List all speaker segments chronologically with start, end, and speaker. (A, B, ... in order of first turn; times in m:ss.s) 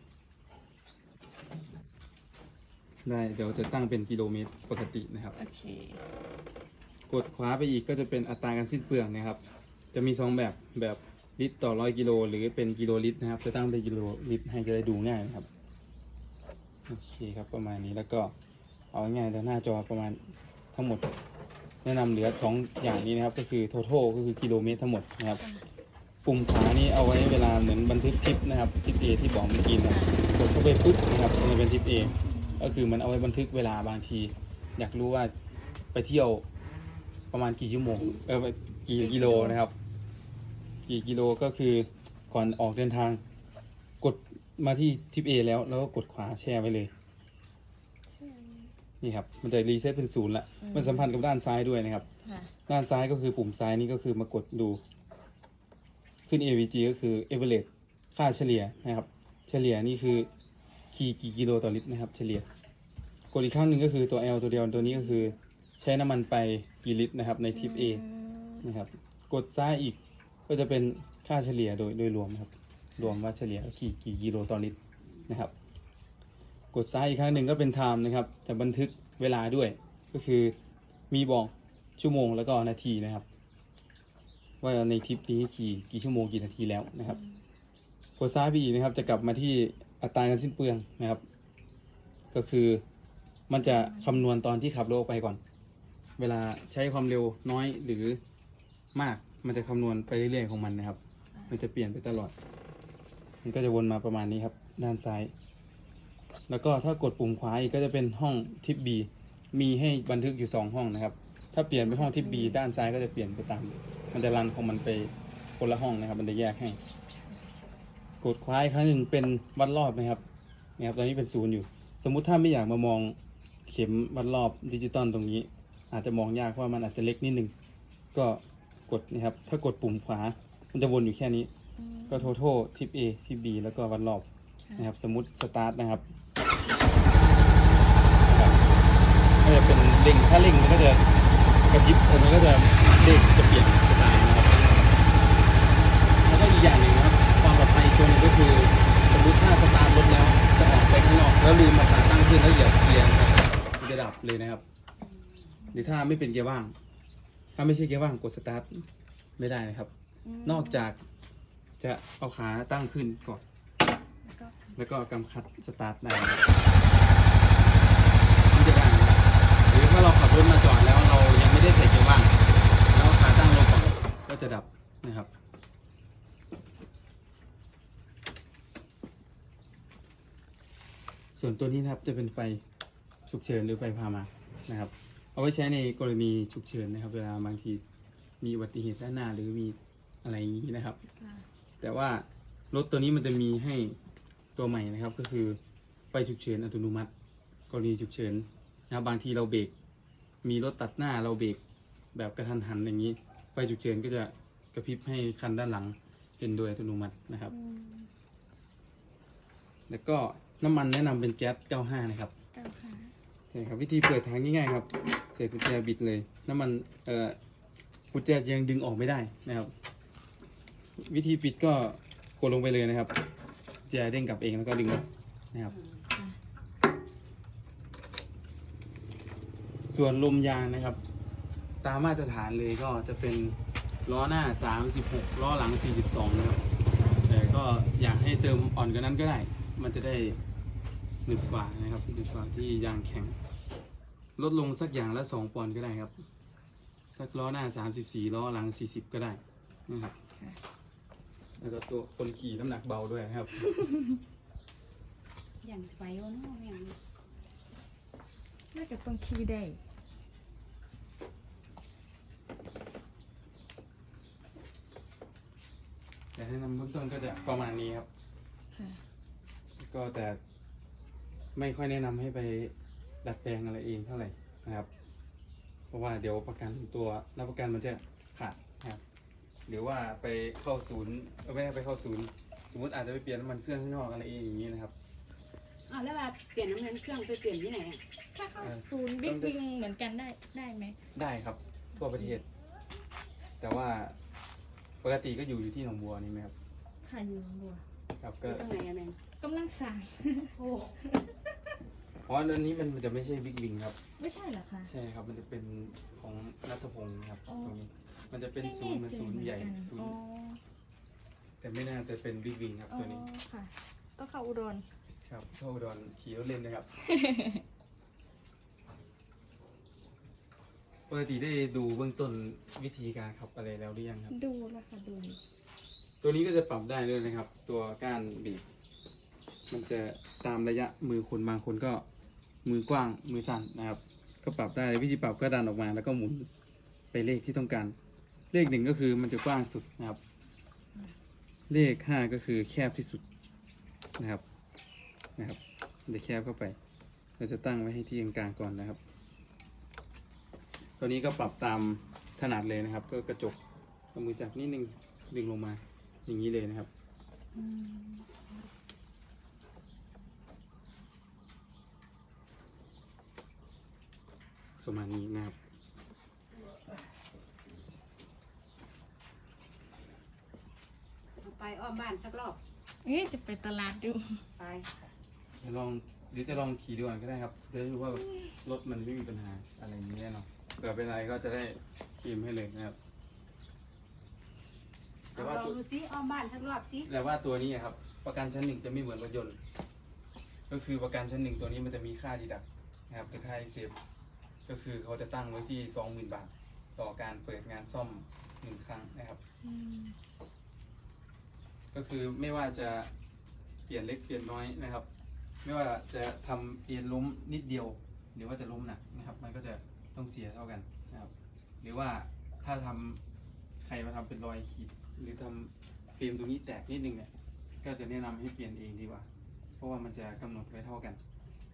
0:03.0-0:05.4 A
0:05.4-0:06.0 B
0:07.1-0:09.4 A
0:09.9-0:15.5 A
0:16.9-0:18.3 A
0:18.9-0:21.1 A
0:21.8-0:25.4 A
0:25.4-0:25.6 B
0:26.2-0:35.3 A
0:29.9-0:30.2 B
0:32.3-0:32.8 B
0:35.9-0:36.4 A
0:37.3-0:39.7 A
0:39.0-0:39.6 B
0:40.8-0:43.2 A
0:44.0-0:46.9 A
0:48.1-0:48.7 B
0:49.0-0:52.0 A
0:50.6-0:51.0 B
0:52.2-0:52.5 B
0:52.7-0:54.8 A
0:56.3-1:00.3 A
1:00.9-1:02.5 A
1:03.3-1:08.0 A
1:07.5-1:08.6 B
1:08.6-1:15.5 A
1:16.7-1:20.5 A
1:21.1-1:23.2 A
1:24.6-1:27.2 A
1:27.1-1:27.4 B
1:28.2-1:31.2 A
1:32.3-1:32.8 A
1:33.5-1:35.4 A
1:33.6-1:34.2 B
1:36.2-1:38.2 A
1:38.9-1:41.0 A
1:41.5-1:42.3 A
1:43.4-1:45.3 A
1:46.5-1:56.8 A
1:52.2-1:52.5 B
1:58.2-2:00.2 A
2:00.8-2:07.5 A
2:08.1-2:11.5 A
2:11.8-2:12.3 B
2:12.1-2:16.0 A
2:18.3-2:18.6 A
2:19.4-2:21.1 A
2:21.7-2:24.9 A
2:26.1-2:34.6 A
2:35.0-2:35.5 C
2:35.7-2:36.8 A
2:37.5-2:38.9 A
2:39.4-2:39.9 A
2:40.2-2:40.9 B
2:40.4-2:41.0 A
2:41.8-2:43.4 A
2:44.2-2:44.7 B
2:44.7-2:46.5 A
2:48.5-2:52.3 A
2:52.9-2:55.3 A
3:01.3-3:02.6 A
3:03.3-3:07.8 A
3:08.4-3:11.0 A
3:11.2-3:11.4 B
3:11.8-3:14.0 A
3:14.6-3:15.6 A
3:16.1-3:17.1 A
3:17.7-3:19.7 A
3:20.4-3:21.6 A
3:22.1-3:27.5 A
3:27.5-3:28.1 B
3:29.9-3:32.3 A
3:32.5-3:33.1 B
3:33.5-3:37.4 A
3:38.1-3:39.7 A
3:41.0-3:43.2 A
3:43.9-3:45.7 A
3:45.7-3:46.0 C
3:46.1-3:46.4 B
3:49.9-3:51.0 A
3:51.8-3:56.6 A
3:56.9-3:57.6 B
3:57.2-4:00.4 A
4:01.2-4:03.4 A
4:04.4-4:06.1 A
4:07.2-4:10.1 A
4:11.6-4:13.8 A
4:15.6-4:17.0 C
4:18.7-4:19.8 B
4:26.3-4:28.1 A
4:28.7-4:29.0 B
4:29.8-4:30.4 A
4:31.5-4:34.9 A
4:35.9-4:39.0 A
4:39.7-4:44.9 A
4:45.8-4:48.0 C
4:48.3-4:51.0 B
4:48.6-4:49.6 A
4:51.1-4:52.4 A
4:53.6-4:54.2 A
4:55.0-4:56.5 A
4:57.0-4:57.8 B
4:58.2-4:58.6 A
4:58.4-4:59.2 C
4:59.4-5:01.2 B
5:00.5-5:01.0 C
5:02.2-5:04.0 A
5:04.2-5:04.9 B
5:04.8-5:10.2 A
5:07.4-5:07.8 B
5:08.6-5:10.6 B
5:11.6-5:13.2 A
5:12.9-5:14.9 B
5:15.2-5:16.9 A
5:17.0-5:17.6 B
5:21.1-5:24.3 A
5:24.3-5:25.4 B
5:26.2-5:28.6 A
5:29.7-5:32.0 A
5:32.6-5:36.5 A
5:37.1-5:37.9 A
5:38.5-5:40.2 A
5:41.7-5:43.2 A
5:44.2-5:44.4 A
5:45.4-5:46.8 A
5:47.4-5:49.0 A
5:51.0-5:53.6 A
5:54.1-5:56.9 A
5:57.5-5:58.6 B
6:04.8-6:05.6 A
6:11.4-6:12.6 C
6:13.0-6:14.4 B
6:14.5-6:14.9 C
6:15.6-6:23.0 A
6:25.3-6:25.8 A
6:25.3-6:27.1 C
6:27.0-6:29.6 A
6:30.7-6:33.9 A
6:34.6-6:39.4 A
6:39.6-6:40.2 B
6:41.9-6:43.1 A
6:43.9-6:45.0 A
6:45.6-6:53.2 A
6:53.8-6:57.3 A
6:57.8-6:59.3 A
6:59.8-7:01.2 A